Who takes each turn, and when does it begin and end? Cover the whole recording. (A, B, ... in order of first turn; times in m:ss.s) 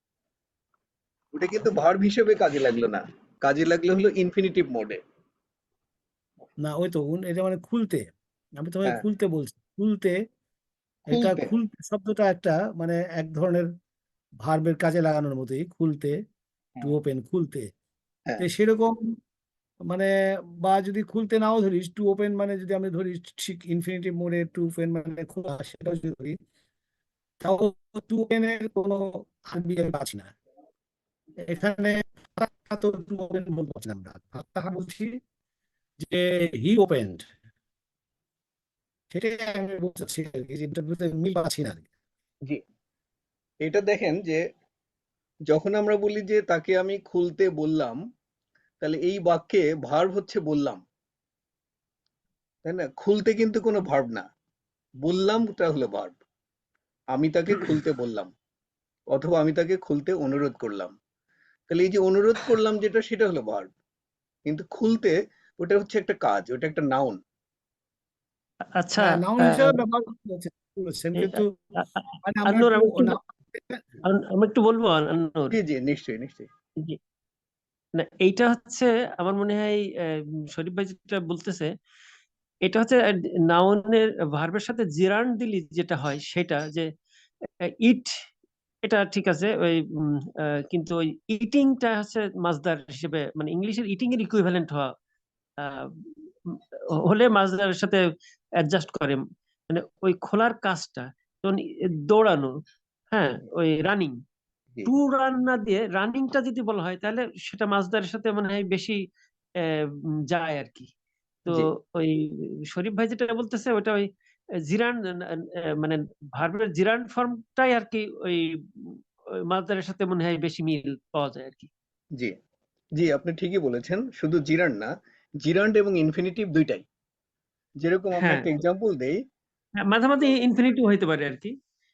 0:01.3-0:05.0 A
0:06.6-0:10.2 B
0:11.1-0:13.7 B
0:11.1-0:11.5 A
0:14.4-0:16.2 B
0:16.8-0:17.7 B
0:18.4-0:19.2 B
0:19.9-0:26.4 B
0:27.4-0:30.3 B
0:31.4-0:35.2 B
0:36.0-0:37.3 B
0:39.1-0:41.9 B
0:43.6-0:44.4 A
0:45.5-0:48.0 A
0:48.8-0:50.8 A
0:52.6-0:54.2 A
0:55.0-0:56.2 A
0:57.1-0:58.3 A
0:59.1-1:00.9 A
1:01.7-1:03.7 A
1:04.5-1:07.2 A
1:08.8-1:09.8 C
1:09.0-1:11.5 B
1:11.2-1:13.2 C
1:12.2-1:13.9 B
1:14.0-1:15.6 C
1:15.5-1:16.5 A
1:18.0-1:21.7 C
1:22.6-1:26.9 C
1:27.6-1:28.2 C
1:28.8-1:34.9 C
1:35.6-1:42.6 C
1:43.1-1:44.2 C
1:44.9-1:49.0 C
1:49.6-1:50.9 C
1:51.4-1:54.1 C
1:54.7-2:01.7 C
2:03.0-2:06.8 A
2:07.8-2:09.2 A
2:08.2-2:08.5 C
2:09.8-2:11.6 C